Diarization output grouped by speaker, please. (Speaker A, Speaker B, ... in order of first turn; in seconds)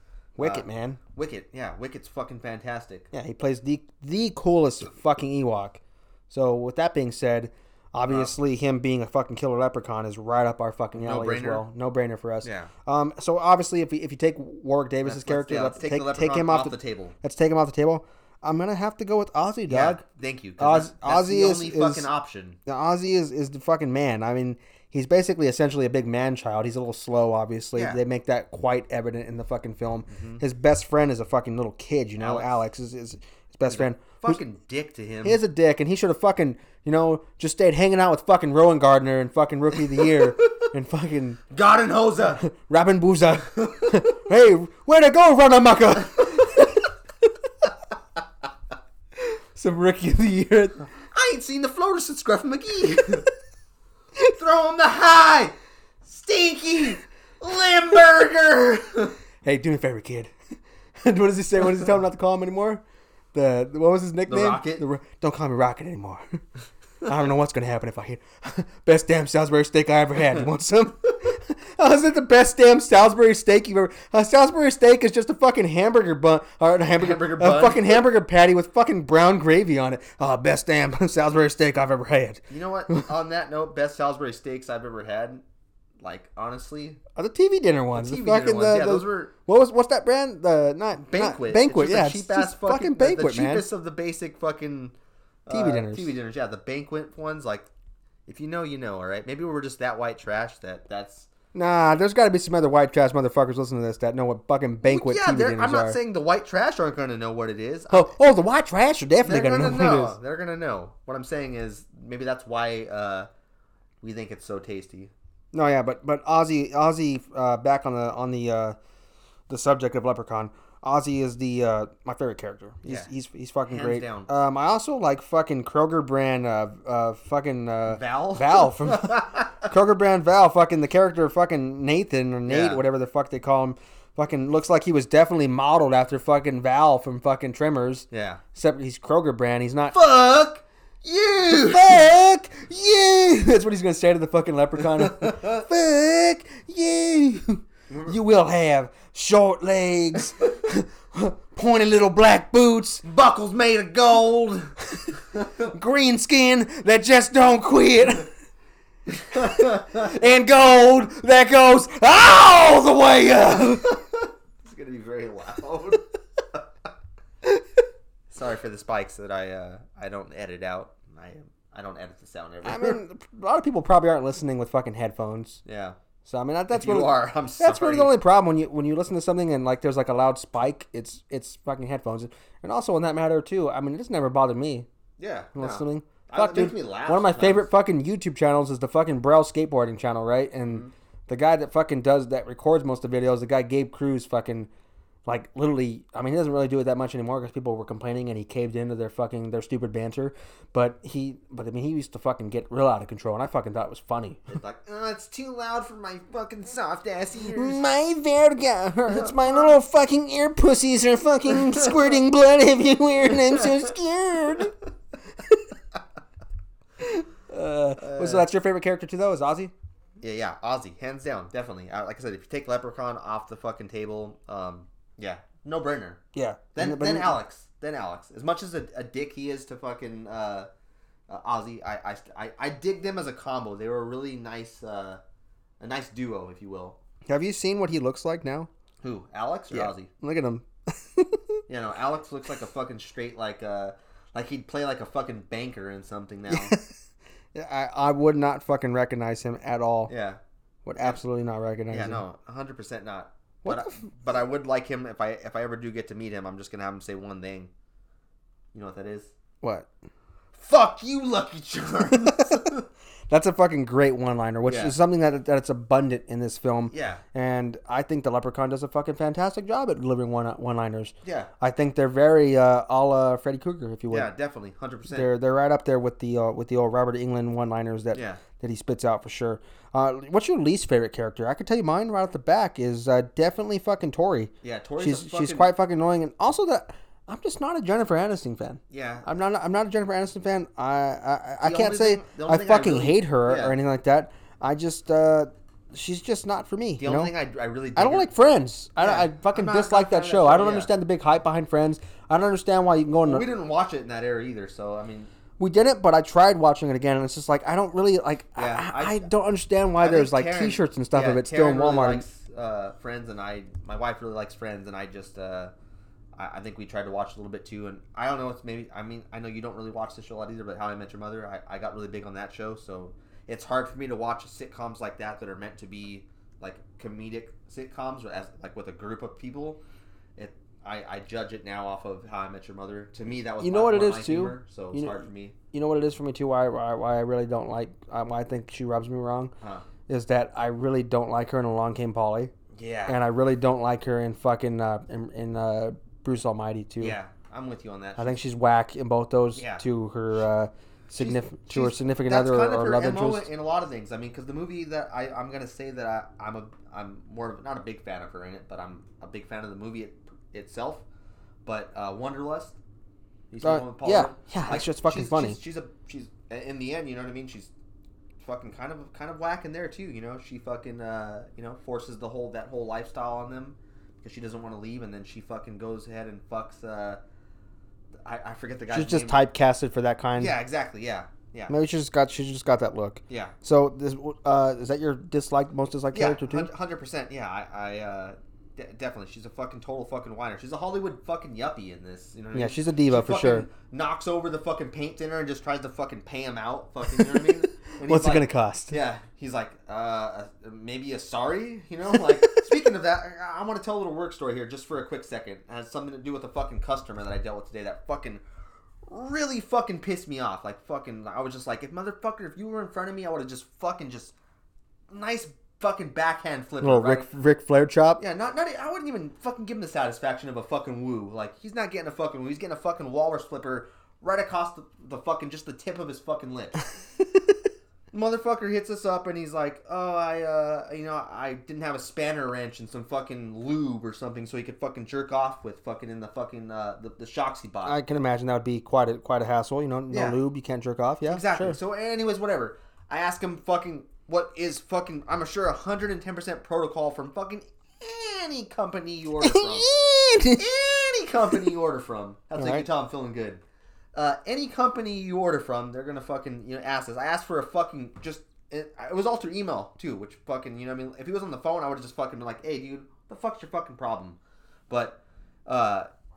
Speaker A: 0.4-1.0, 3.1-20.0, 20.6-22.1, 22.6-34.4, 35.2-41.4, 42.3-46.9, 49.2-50.8, 59.4-60.3, 61.0-62.8, 63.3-66.4, 67.0-83.1, 87.2-93.7, 95.5-96.1, 101.5-106.0, 107.9-110.2, 115.5-118.8, 119.5-139.9, 141.6-153.0, 154.9-158.3, 159.2-164.0, 172.6-175.6, 176.2-184.9, 185.5-194.7, 195.2-204.5, 207.5-214.7, 217.0-219.7, 226.3-227.4, 237.3-238.7, 239.7-241.6, 246.5-246.9, 247.5-250.1, 250.8-252.2, 253.6-254.1, 259.6-259.9, 262.1-262.6, 263.3-274.3, 275.1-297.3, 297.9-303.4, 305.6-312.2, 333.6-339.5, 340.1-342.5, 343.1-347.2, 348.2-353.5, 363.6-365.6, 378.9-380.5, 381.7-386.7, 392.5-393.7, 397.1-398.9, 402.1-402.6, 416.8-418.2, 437.8-441.8, 449.4-450.6, 452.6-452.9
Speaker B: 0.4-3.1, 8.1-8.3, 10.9-11.6, 12.4-12.7, 15.0-17.1, 19.7-22.6, 30.1-30.4, 32.2-32.5, 33.7-35.4, 41.5-42.4, 51.1-53.3, 54.3-55.5, 56.0-59.1, 64.3-64.8, 77.0-78.1, 82.5-85.4, 86.0-87.0, 87.9-89.3, 91.0-94.9, 95.5-97.7, 98.3-101.3, 104.8-108.1, 109.2-113.3, 114.0-115.1, 123.7-124.3, 127.9-129.6, 132.5-132.8, 138.1-138.4, 139.9-142.0, 145.0-145.5, 147.9-148.2, 153.0-154.7, 159.3-159.8, 164.6-166.6, 168.3-173.0, 175.6-176.0, 176.7-178.1, 185.2-187.7, 190.6-190.9, 204.5-207.8, 209.1-209.7, 218.0-218.4, 220.2-226.2, 226.7-230.7, 231.3-235.2, 235.8-237.0, 239.0-240.1, 241.7-246.7, 250.1-250.4, 251.9-257.7, 258.7-259.3, 260.5-262.8, 264.7-264.9, 266.9-267.2, 271.2-271.5, 274.1-275.3, 278.1-278.4, 284.6-285.7, 288.9-289.2, 291.6-293.8, 297.0-298.3, 299.0-300.9, 303.2-305.3, 308.6-309.3, 310.0-315.7, 316.3-329.8, 330.4-335.5, 339.6-339.9, 342.7-343.2, 347.0-348.4, 349.5-349.9, 351.1-361.0, 361.6-362.8, 363.5-367.7, 368.4-377.2, 378.2-379.4, 380.4-381.7, 383.3-383.5, 386.1-408.4, 409.1-414.3, 415.1-417.3, 418.2-426.8, 428.1-437.9, 440.1-440.4, 441.2-449.9, 450.5-453.6, 454.1-466.1